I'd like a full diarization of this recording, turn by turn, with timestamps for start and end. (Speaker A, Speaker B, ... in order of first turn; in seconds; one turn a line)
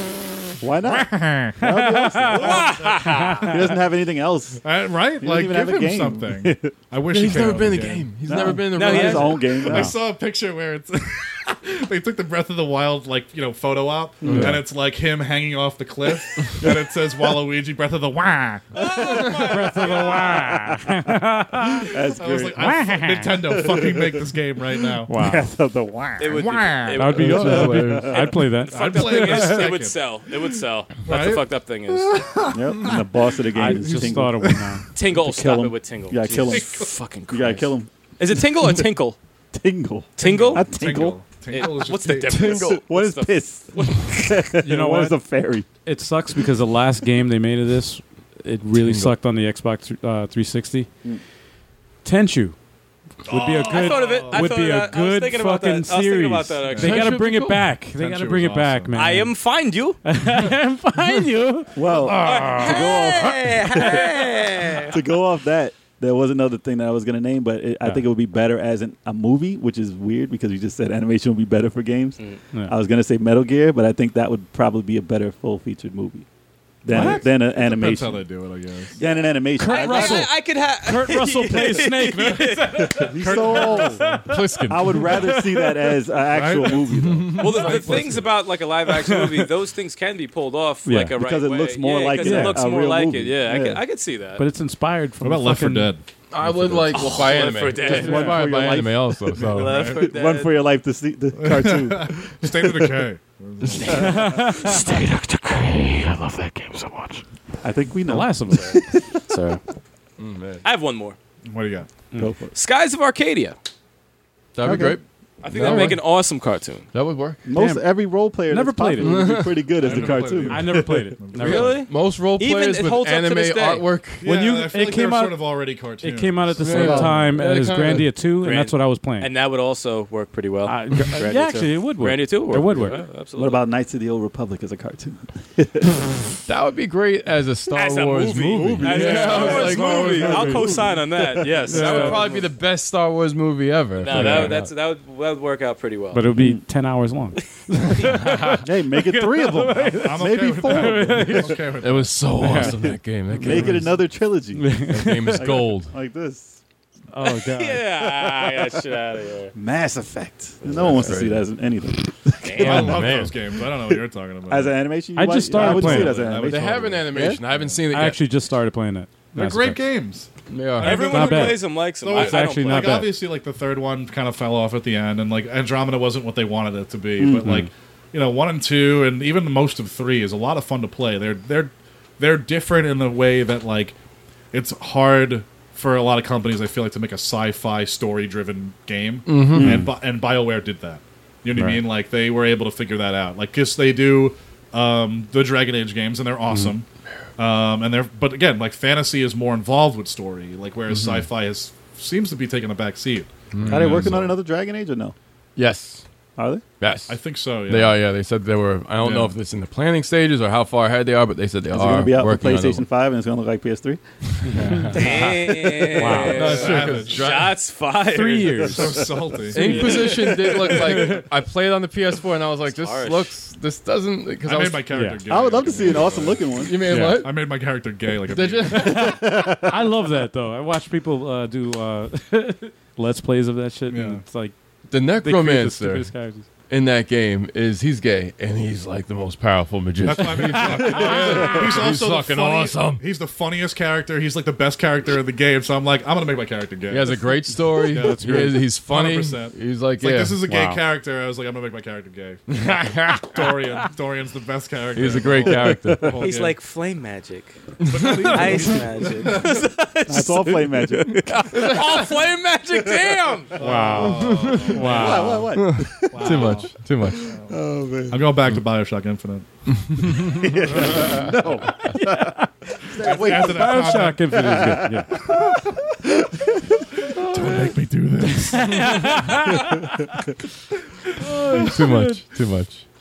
Speaker A: 0.6-2.7
Speaker B: 0.9-3.6
Speaker C: 2.3-3.6
Speaker D: 2.4-3.1
Speaker A: 3.5-4.6
Speaker D: 4.6-8.1
Speaker A: 5.2-6.8
Speaker E: 7.1-9.5
Speaker A: 8.3-9.9
Speaker C: 8.7-9.7
Speaker D: 9.6-18.7
Speaker B: 9.7-9.9
Speaker A: 14.2-14.6
Speaker B: 14.3-14.6
Speaker C: 18.7-20.8
Speaker A: 18.8-20.0
Speaker B: 19.3-22.0
Speaker A: 21.8-24.3
Speaker D: 22.2-25.1
Speaker B: 22.6-23.4
Speaker B: 25.1-25.5
Speaker A: 25.1-28.2
Speaker C: 26.2-32.2
Speaker D: 26.4-26.7
Speaker B: 26.9-29.7
Speaker E: 27.1-28.3
Speaker D: 28.7-30.0
Speaker D: 31.1-34.7
Speaker A: 32.5-37.9
Speaker B: 33.5-34.8
Speaker C: 35.0-39.2
Speaker D: 36.5-36.9
Speaker A: 39.5-41.2
Speaker C: 40.2-40.7
Speaker D: 40.2-42.6
Speaker C: 41.5-44.3
Speaker E: 42.3-42.8
Speaker A: 42.5-45.7
Speaker B: 44.6-45.2
Speaker B: 45.9-50.9
Speaker E: 48.8-49.1
Speaker B: 52.0-52.6
Speaker B: 53.2-59.4
Speaker D: 53.3-54.5
Speaker C: 53.6-57.1
Speaker D: 56.7-57.1
Speaker E: 56.8-57.8
Speaker D: 57.9-59.0
Speaker C: 58.9-60.0
Speaker B: 60.0-63.0
Speaker A: 61.8-76.3
Speaker C: 61.9-65.0
Speaker D: 62.0-62.8
Speaker A: 76.8-78.2
Speaker D: 76.9-79.0
Speaker B: 77.0-77.2
Speaker C: 79.0-83.0
Speaker A: 79.0-80.3
Speaker B: 79.5-85.9
Speaker A: 82.8-88.2
Speaker D: 83.2-84.3
Speaker E: 84.2-85.2
Speaker D: 86.3-87.1
Speaker E: 87.0-88.2
Speaker C: 87.4-94.4
Speaker B: 87.6-88.0
Speaker D: 87.7-88.2
Speaker B: 89.0-89.4
Speaker B: 90.8-91.2
Speaker A: 91.1-93.8
Speaker B: 92.2-92.6
Speaker B: 94.4-95.9
Speaker D: 95.2-97.1
Speaker E: 96.3-99.9
Speaker C: 96.9-98.5
Speaker A: 97.9-99.2
Speaker D: 99.3-100.1
Speaker C: 99.4-100.5
Speaker A: 99.8-103.0
Speaker D: 101.4-104.3
Speaker C: 103.6-107.2
Speaker B: 103.9-104.8
Speaker A: 107.6-109.2
Speaker B: 108.1-108.8
Speaker C: 108.5-109.6
Speaker E: 110.2-110.7
Speaker C: 110.6-111.2
Speaker D: 111.5-111.9
Speaker A: 112.2-112.5
Speaker C: 112.5-113.5
Speaker E: 114.5-116.0
Speaker A: 114.6-115.0
Speaker C: 115.4-116.9
Speaker E: 116.9-117.4
Speaker A: 117.5-121.1
Speaker B: 117.5-119.4
Speaker E: 119.0-120.0
Speaker D: 119.7-121.8
Speaker B: 120.3-121.8
Speaker C: 121.4-123.9
Speaker E: 121.5-124.3
Speaker D: 124.2-127.2
Speaker B: 124.2-129.3
Speaker E: 126.6-128.2
Speaker A: 126.7-127.2
Speaker C: 128.4-133.6
Speaker B: 130.7-133.0
Speaker A: 133.4-136.1
Speaker E: 136.5-140.8
Speaker C: 137.7-142.4
Speaker B: 138.8-140.8
Speaker A: 139.2-141.6
Speaker B: 141.6-142.2
Speaker E: 141.6-144.7
Speaker C: 144.0-146.2
Speaker B: 144.1-144.6
Speaker B: 146.1-151.6
Speaker A: 146.4-146.6
Speaker E: 148.2-148.6
Speaker A: 148.5-151.6
Speaker D: 149.9-152.3
Speaker E: 151.8-154.0
Speaker B: 152.4-153.9
Speaker A: 152.6-156.6
Speaker B: 154.6-155.6
Speaker E: 154.8-155.9
Speaker B: 157.1-157.8
Speaker C: 157.3-159.5
Speaker A: 158.0-158.8
Speaker A: 159.5-162.8
Speaker E: 160.7-161.5
Speaker C: 162.4-162.8
Speaker D: 162.6-164.8
Speaker B: 162.6-163.1
Speaker E: 162.6-163.4
Speaker A: 164.5-167.4
Speaker B: 165.2-166.3
Speaker D: 165.5-167.8
Speaker E: 166.4-168.2
Speaker B: 167.9-169.8
Speaker D: 169.3-184.0
Speaker E: 170.5-171.0
Speaker C: 170.8-173.1
Speaker B: 170.8-173.2
Speaker A: 177.2-177.6
Speaker B: 177.4-177.7
Speaker D: 184.5-196.9
Speaker E: 189.3-189.8
Speaker A: 189.5-189.9
Speaker B: 189.6-189.9
Speaker B: 191.6-191.8
Speaker D: 197.4-204.4
Speaker E: 200.9-201.3
Speaker E: 203.5-204.1
Speaker A: 203.7-205.2
Speaker E: 205.6-206.1
Speaker A: 206.4-206.6
Speaker E: 206.8-212.8
Speaker D: 207.1-208.1
Speaker D: 209.0-209.4
Speaker A: 211.7-214.0
Speaker E: 214.4-215.2
Speaker B: 214.5-215.4
Speaker C: 214.9-221.2
Speaker B: 215.9-216.5
Speaker E: 216.0-217.6
Speaker D: 216.4-217.3
Speaker B: 218.1-221.2
Speaker D: 218.5-220.0
Speaker E: 219.5-225.1
Speaker C: 222.7-223.3
Speaker D: 224.4-229.1
Speaker B: 224.9-225.2
Speaker A: 225.3-226.8
Speaker E: 225.7-227.4
Speaker B: 226.9-227.3
Speaker E: 228.3-229.2
Speaker B: 228.7-236.5
Speaker A: 228.8-229.9
Speaker D: 233.9-234.2
Speaker E: 234.9-236.2
Speaker E: 236.7-243.0
Speaker D: 240.0-256.6
Speaker B: 240.1-241.7
Speaker E: 246.9-250.4
Speaker B: 247.7-248.6
Speaker B: 250.4-250.8
Speaker E: 252.5-253.6
Speaker E: 254.9-256.3
Speaker A: 255.6-256.3
Speaker C: 256.2-257.6
Speaker E: 257.8-258.8
Speaker D: 257.9-259.6
Speaker C: 258.2-263.5
Speaker A: 260.1-261.9
Speaker E: 261.5-261.9
Speaker A: 262.7-263.1
Speaker D: 263.6-265.5
Speaker B: 263.6-265.5
Speaker E: 264.0-267.3
Speaker A: 264.8-268.3
Speaker D: 266.1-267.6
Speaker D: 268.1-271.4
Speaker E: 269.9-270.5
Speaker A: 270.3-274.9
Speaker D: 272.9-275.7
Speaker B: 273.3-275.1
Speaker A: 276.0-276.7
Speaker D: 277.0-279.2
Speaker B: 277.3-277.6
Speaker B: 278.3-280.2
Speaker A: 279.5-280.1
Speaker B: 281.2-282.2
Speaker E: 281.6-282.8